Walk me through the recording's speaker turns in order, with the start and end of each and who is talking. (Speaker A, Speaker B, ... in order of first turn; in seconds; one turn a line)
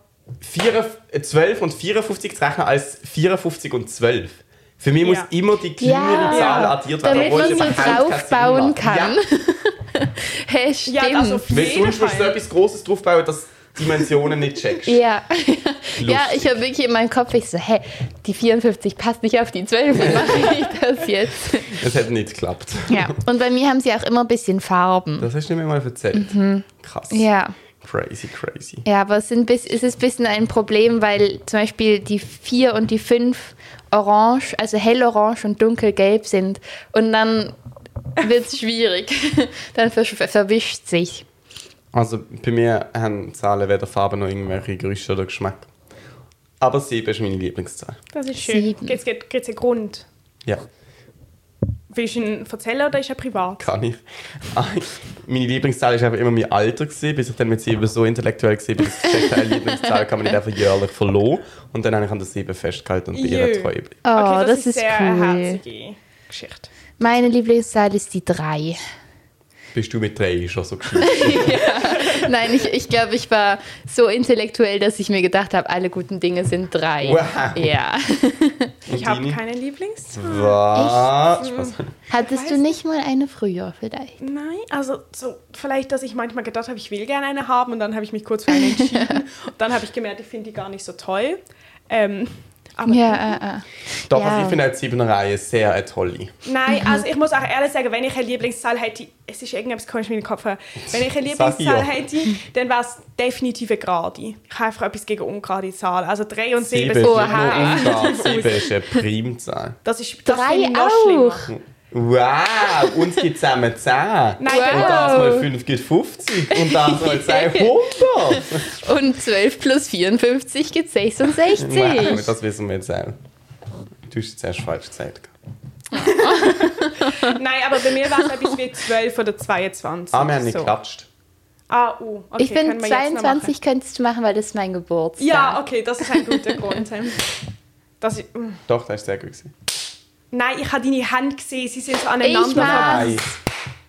Speaker A: 0.4-9.2
Speaker B: 5.8-11.5
Speaker C: 6.3-8.1
Speaker C: 10.9-12.3
Speaker A: 11.5-15.0
Speaker B: 14.8-21.8
Speaker A: 16.0-16.6
Speaker A: 19.9-20.6
Speaker A: 21.7-23.2
Speaker B: 22.9-25.3
Speaker A: 25.2-27.3
Speaker B: 26.1-27.6
Speaker A: 27.8-28.9
Speaker B: 28.9-37.5
Speaker B: 38.2-41.3
Speaker A: 41.9-45.7
Speaker A: 46.6-48.0
Speaker C: 48.1-50.1
Speaker B: 48.5-49.0
Speaker C: 51.9-53.7
Speaker A: 53.6-64.0
Speaker C: 63.1-66.7
Speaker B: 64.0-65.6
Speaker B: 67.0-68.8
Speaker A: 69.7-72.1
Speaker B: 71.0-78.7
Speaker C: 71.8-72.3
Speaker A: 77.0-77.7
Speaker A: 78.9-79.4
Speaker C: 78.9-80.6
Speaker A: 80.1-81.8
Speaker B: 80.7-81.1
Speaker C: 81.4-82.7
Speaker B: 82.1-84.2
Speaker C: 84.2-93.4
Speaker B: 88.5-89.1
Speaker B: 92.9-94.6
Speaker A: 94.1-96.3
Speaker C: 96.5-108.7
Speaker B: 96.7-97.0
Speaker A: 100.9-102.0
Speaker A: 106.6-109.8
Speaker B: 107.0-108.4
Speaker C: 109.8-111.5
Speaker B: 110.3-111.5
Speaker A: 111.5-118.7
Speaker C: 114.4-115.4
Speaker B: 114.5-115.5
Speaker B: 116.5-122.3
Speaker A: 121.5-123.2
Speaker A: 124.1-125.3
Speaker C: 125.9-130.7
Speaker B: 126.0-127.3
Speaker A: 130.1-131.1
Speaker C: 131.7-133.5
Speaker B: 132.4-136.7
Speaker C: 135.2-137.4
Speaker C: 138.0-138.6
Speaker A: 138.7-139.5
Speaker C: 140.3-143.2
Speaker B: 142.2-143.3
Speaker A: 142.5-143.3